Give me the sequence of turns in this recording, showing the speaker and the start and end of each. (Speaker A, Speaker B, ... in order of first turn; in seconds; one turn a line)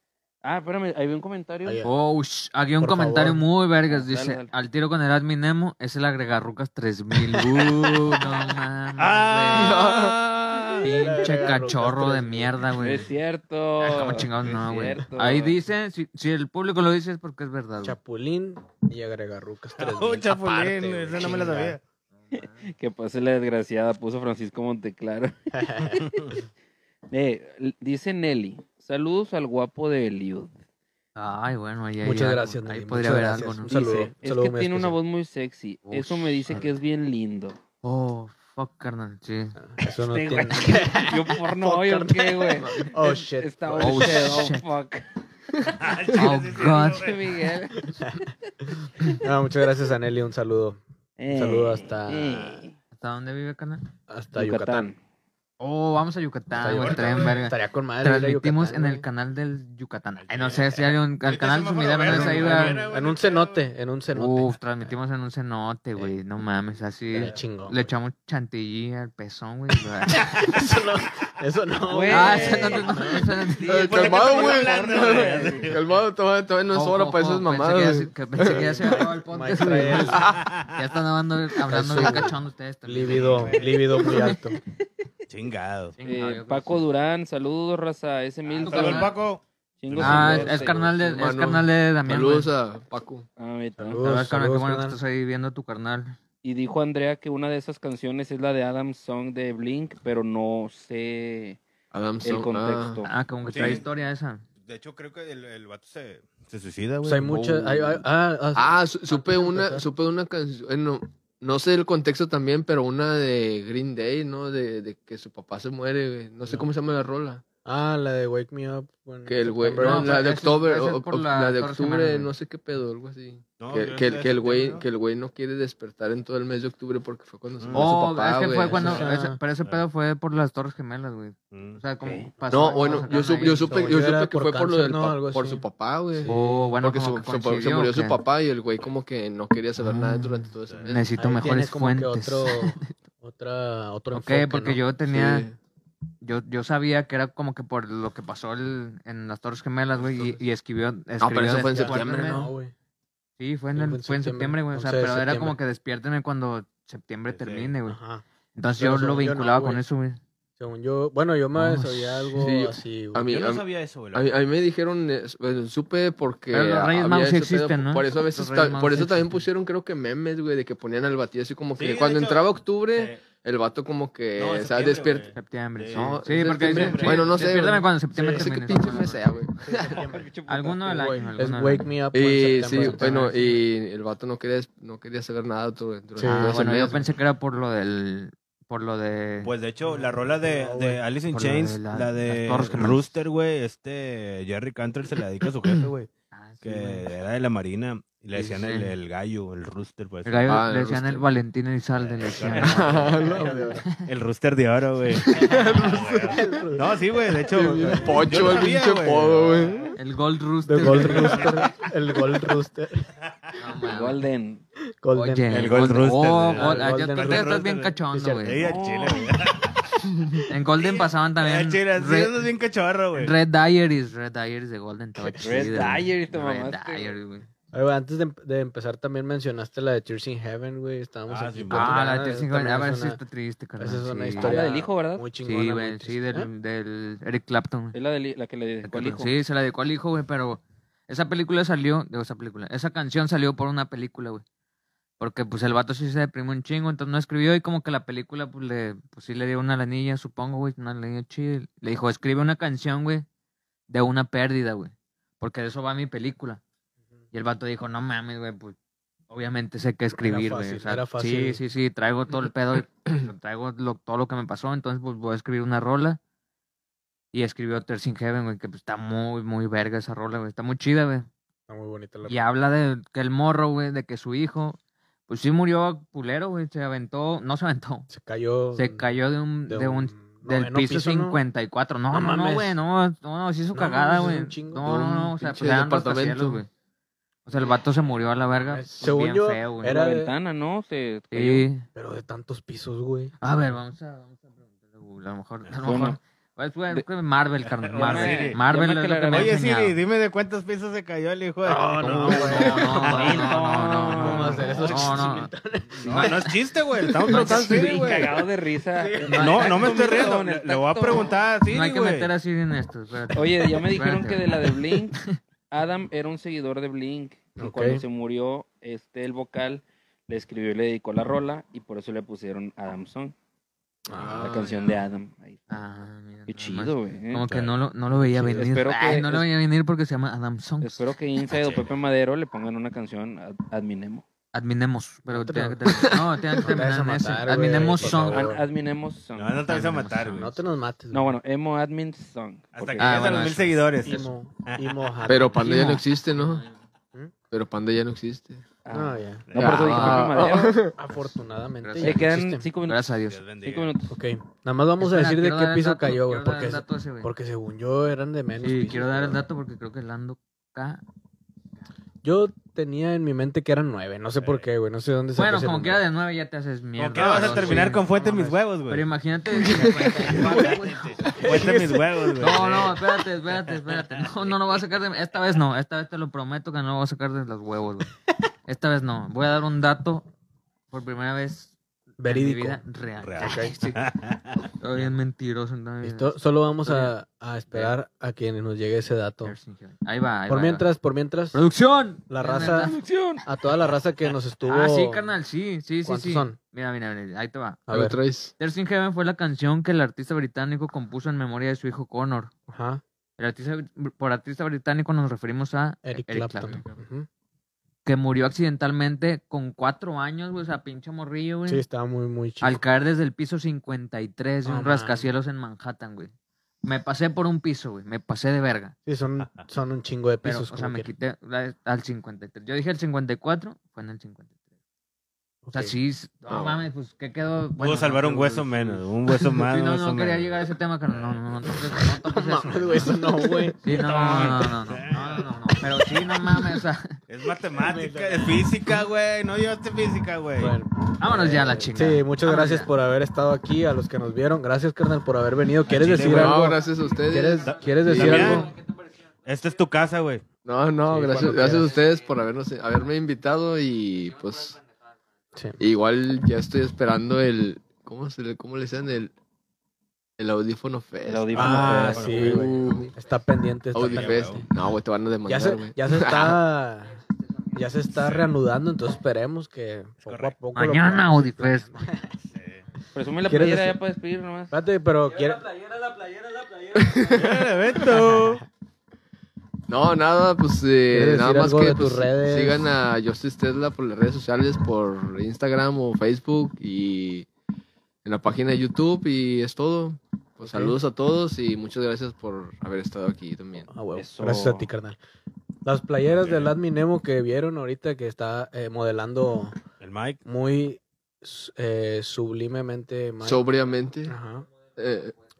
Speaker A: 0.4-1.8
Speaker B: 1.6-1.9
Speaker C: 1.8-9.9
Speaker B: 2.8-3.5
Speaker A: 3.9-4.5
Speaker D: 9.0-11.1
Speaker E: 9.5-10.2
Speaker C: 10.8-13.1
Speaker B: 10.8-12.6
Speaker A: 12.8-15.6
Speaker C: 13.8-18.0
Speaker B: 17.8-21.8
Speaker D: 19.8-21.8
Speaker A: 22.3-26.1
Speaker B: 25.5-26.0
Speaker D: 26.0-26.4
Speaker A: 27.1-30.5
Speaker C: 31.1-34.1
Speaker B: 32.0-35.0
Speaker A: 34.2-37.6
Speaker C: 35.9-36.7
Speaker C: 37.8-39.6
Speaker B: 39.6-44.2
Speaker A: 39.9-45.0
Speaker C: 43.8-44.7
Speaker D: 45.8-47.2
Speaker C: 46.1-47.2
Speaker A: 46.5-48.0
Speaker B: 48.0-48.3
Speaker B: 49.1-50.8
Speaker A: 51.2-52.7
Speaker B: 51.3-52.6
Speaker C: 52.9-53.8
Speaker B: 54.1-54.9
Speaker A: 54.3-55.0
Speaker C: 55.6-62.8
Speaker B: 56.5-59.0
Speaker D: 56.8-57.4
Speaker D: 60.2-63.6
Speaker B: 62.0-64.9
Speaker C: 64.1-70.5
Speaker B: 67.1-67.9
Speaker B: 70.2-73.4
Speaker A: 71.9-72.9
Speaker C: 72.1-74.5
Speaker D: 72.3-72.6
Speaker D: 73.6-76.0
Speaker E: 73.7-79.1
Speaker A: 74.3-75.7
Speaker C: 76.7-84.4
Speaker B: 78.4-80.3
Speaker E: 79.6-80.4
Speaker D: 80.3-80.8
Speaker B: 81.7-84.6
Speaker E: 82.0-82.3
Speaker D: 83.0-83.8
Speaker D: 85.3-86.0
Speaker C: 86.0-86.8
Speaker A: 86.0-89.1
Speaker C: 88.5-89.1
Speaker D: 88.6-90.7
Speaker A: 89.8-91.2
Speaker C: 90.0-92.5
Speaker E: 91.1-93.2
Speaker A: 93.4-94.0
Speaker B: 93.8-95.0
Speaker C: 94.0-96.2
Speaker A: 96.4-101.6
Speaker E: 101.9-103.0
Speaker A: 102.2-103.1
Speaker C: 103.0-104.4
Speaker D: 103.5-103.9
Speaker D: 104.6-107.8
Speaker B: 107.0-109.8
Speaker E: 108.5-117.4
Speaker B: 117.6-120.2
Speaker E: 119.2-129.0
Speaker C: 119.8-122.3
Speaker D: 123.6-124.8
Speaker D: 127.6-127.9
Speaker C: 127.7-134.0
Speaker B: 128.7-129.4
Speaker D: 128.8-129.1
Speaker D: 131.5-131.8
Speaker A: 132.0-132.3
Speaker E: 132.5-141.2
Speaker B: 132.5-135.6
Speaker B: 136.1-136.7
Speaker C: 136.3-138.2
Speaker C: 139.8-142.9
Speaker D: 140.7-140.9
Speaker B: 141.2-144.8
Speaker C: 144.1-145.5
Speaker E: 145.1-145.6
Speaker C: 146.2-152.5
Speaker E: 150.1-150.4
Speaker E: 151.2-152.4
Speaker B: 151.5-152.7
Speaker C: 153.4-158.0
Speaker B: 153.7-155.6
Speaker D: 157.3-157.7
Speaker B: 157.8-158.2
Speaker C: 158.5-160.2
Speaker B: 158.8-159.8
Speaker B: 160.6-163.3
Speaker C: 161.5-162.3
Speaker E: 162.3-175.3
Speaker D: 163.2-164.3
Speaker C: 166.5-169.4
Speaker D: 171.8-173.2
Speaker D: 174.3-177.5
Speaker C: 175.3-179.5
Speaker E: 175.9-180.1
Speaker B: 179.6-180.3
Speaker A: 179.9-181.3
Speaker C: 180.5-181.9
Speaker B: 181.3-183.6
Speaker E: 182.1-187.1
Speaker C: 182.7-183.1
Speaker B: 186.2-186.6
Speaker C: 186.2-189.5
Speaker D: 189.4-196.1
Speaker B: 189.8-191.0
Speaker C: 191.3-193.1
Speaker C: 196.3-197.0
Speaker D: 196.6-200.6
Speaker C: 198.3-198.9
Speaker C: 200.2-203.2
Speaker E: 200.4-201.3
Speaker D: 202.0-210.0
Speaker E: 202.4-203.8
Speaker B: 203.1-203.8
Speaker E: 205.1-206.7
Speaker B: 206.3-208.7
Speaker E: 207.5-209.9
Speaker C: 209.9-211.5
Speaker B: 210.7-213.1
Speaker D: 210.8-211.9
Speaker C: 213.6-214.2
Speaker A: 213.9-214.6
Speaker B: 215.0-218.7
Speaker C: 215.1-218.6
Speaker D: 215.5-223.4
Speaker A: 218.6-219.4
Speaker C: 220.5-222.3
Speaker C: 223.1-227.5
Speaker B: 225.2-225.9
Speaker A: 225.4-227.1
Speaker B: 227.7-233.2
Speaker D: 231.3-232.1
Speaker C: 231.7-234.6
Speaker B: 233.8-236.5
Speaker A: 234.4-235.2
Speaker C: 235.4-238.0
Speaker A: 237.9-239.3
Speaker C: 238.8-244.4
Speaker C: 245.2-253.2
Speaker C: 253.9-256.6
Speaker C: 257.3-258.8
Speaker C: 259.3-266.2
Speaker B: 260.2-261.6
Speaker C: 267.3-271.3
Speaker B: 271.7-272.4
Speaker C: 272.2-278.1
Speaker B: 278.1-279.1
Speaker C: 278.7-286.7
Speaker B: 279.7-281.4
Speaker B: 282.1-282.8
Speaker B: 283.7-284.9
Speaker E: 284.8-286.6
Speaker C: 287.4-290.0
Speaker B: 288.5-290.3
Speaker A: 289.9-291.7
Speaker C: 291.3-291.9
Speaker B: 291.9-293.3
Speaker C: 293.4-299.9
Speaker A: 295.8-296.2
Speaker D: 297.6-298.6
Speaker A: 297.9-299.6
Speaker D: 299.3-303.6
Speaker B: 301.6-303.6
Speaker C: 302.0-305.5
Speaker A: 303.0-305.0
Speaker B: 304.1-306.5
Speaker D: 304.4-305.4
Speaker D: 306.0-308.3
Speaker A: 306.0-306.4
Speaker C: 306.1-306.5
Speaker B: 307.1-308.3
Speaker C: 307.3-308.1
Speaker A: 307.3-311.4
Speaker B: 309.0-309.7
Speaker C: 309.2-310.0
Speaker D: 309.3-312.3
Speaker C: 311.7-315.4
Speaker A: 313.3-323.3
Speaker B: 317.6-318.0
Speaker B: 324.1-324.7
Speaker D: 324.2-324.7
Speaker A: 324.3-325.6
Speaker C: 325.7-331.1
Speaker A: 326.5-327.4
Speaker D: 327.4-327.7
Speaker A: 328.5-329.5
Speaker A: 330.8-334.2
Speaker D: 331.5-331.9
Speaker C: 334.5-338.5
Speaker B: 335.3-338.6
Speaker A: 338.0-339.6
Speaker D: 339.3-340.5
Speaker C: 339.7-340.5
Speaker B: 340.2-341.4
Speaker A: 341.1-343.4
Speaker D: 342.7-345.2
Speaker C: 343.0-343.8
Speaker B: 344.0-345.8
Speaker E: 345.2-346.6
Speaker C: 345.6-346.6
Speaker E: 347.5-348.6
Speaker A: 348.8-350.8
Speaker B: 348.9-349.5
Speaker D: 349.5-349.8
Speaker E: 349.6-351.0
Speaker C: 349.6-350.3
Speaker B: 351.0-352.7
Speaker C: 351.8-352.2
Speaker A: 352.0-354.1
Speaker C: 352.8-353.4
Speaker D: 353.3-353.9
Speaker B: 354.1-359.4
Speaker C: 355.0-357.3
Speaker C: 358.6-361.0
Speaker B: 362.2-366.0
Speaker D: 364.4-364.7
Speaker C: 365.3-368.1
Speaker D: 367.0-369.1
Speaker B: 367.1-368.6
Speaker C: 368.9-371.3
Speaker E: 369.6-370.4
Speaker D: 369.8-373.0
Speaker B: 371.3-372.2
Speaker C: 372.4-378.1
Speaker D: 373.7-374.5
Speaker C: 378.7-380.2
Speaker C: 380.9-384.0
Speaker B: 382.2-382.8
Speaker D: 383.2-384.6
Speaker B: 383.4-383.8
Speaker C: 384.7-387.1
Speaker B: 386.0-389.6
Speaker C: 389.4-390.9
Speaker B: 390.5-391.6
Speaker C: 391.5-393.0
Speaker B: 392.3-392.9
Speaker A: 392.7-393.4
Speaker B: 393.4-395.3
Speaker C: 394.6-397.9
Speaker B: 396.0-396.6
Speaker B: 397.9-398.2
Speaker E: 397.9-398.5
Speaker C: 398.6-402.5
Speaker B: 402.7-403.0
Speaker C: 403.4-406.8
Speaker B: 406.0-407.3
Speaker C: 408.0-411.8
Speaker B: 411.6-412.8
Speaker C: 412.6-416.3
Speaker B: 414.6-415.3
Speaker C: 416.8-418.9
Speaker B: 419.1-421.1
Speaker C: 420.4-424.5
Speaker B: 425.6-425.9
Speaker C: 425.7-428.9
Speaker E: 426.5-426.8
Speaker D: 427.8-431.7
Speaker C: 429.7-437.2
Speaker B: 432.0-433.8
Speaker D: 433.9-436.1
Speaker D: 437.3-440.8
Speaker B: 437.8-438.7
Speaker B: 440.6-448.7
Speaker C: 441.2-442.9
Speaker D: 445.9-446.7
Speaker E: 446.2-448.6
Speaker D: 447.5-448.8
Speaker D: 449.4-450.4
Speaker E: 450.6-454.8
Speaker B: 451.1-451.9
Speaker B: 455.5-455.8
Speaker E: 455.8-459.3
Speaker E: 460.4-463.1
Speaker A: 461.2-462.6
Speaker B: 461.5-464.7
Speaker D: 461.6-462.7
Speaker E: 463.9-466.6
Speaker D: 464.0-464.6
Speaker B: 465.5-467.2
Speaker B: 467.7-472.3
Speaker D: 468.1-468.5
Speaker D: 470.2-470.6
Speaker C: 470.7-472.1
Speaker D: 472.4-472.8
Speaker A: 473.1-474.7
Speaker B: 473.5-473.9
Speaker B: 474.7-477.0
Speaker E: 476.9-477.7
Speaker D: 477.3-478.6
Speaker B: 478.0-478.6
Speaker E: 479.9-487.5
Speaker B: 481.1-482.9
Speaker E: 488.2-493.9
Speaker B: 490.6-491.0
Speaker B: 493.9-495.2
Speaker A: 494.1-494.9
Speaker B: 495.8-499.8
Speaker D: 496.4-496.7
Speaker D: 500.0-500.4
Speaker B: 500.4-503.6
Speaker E: 503.4-504.3
Speaker B: 504.3-504.6
Speaker E: 504.9-505.3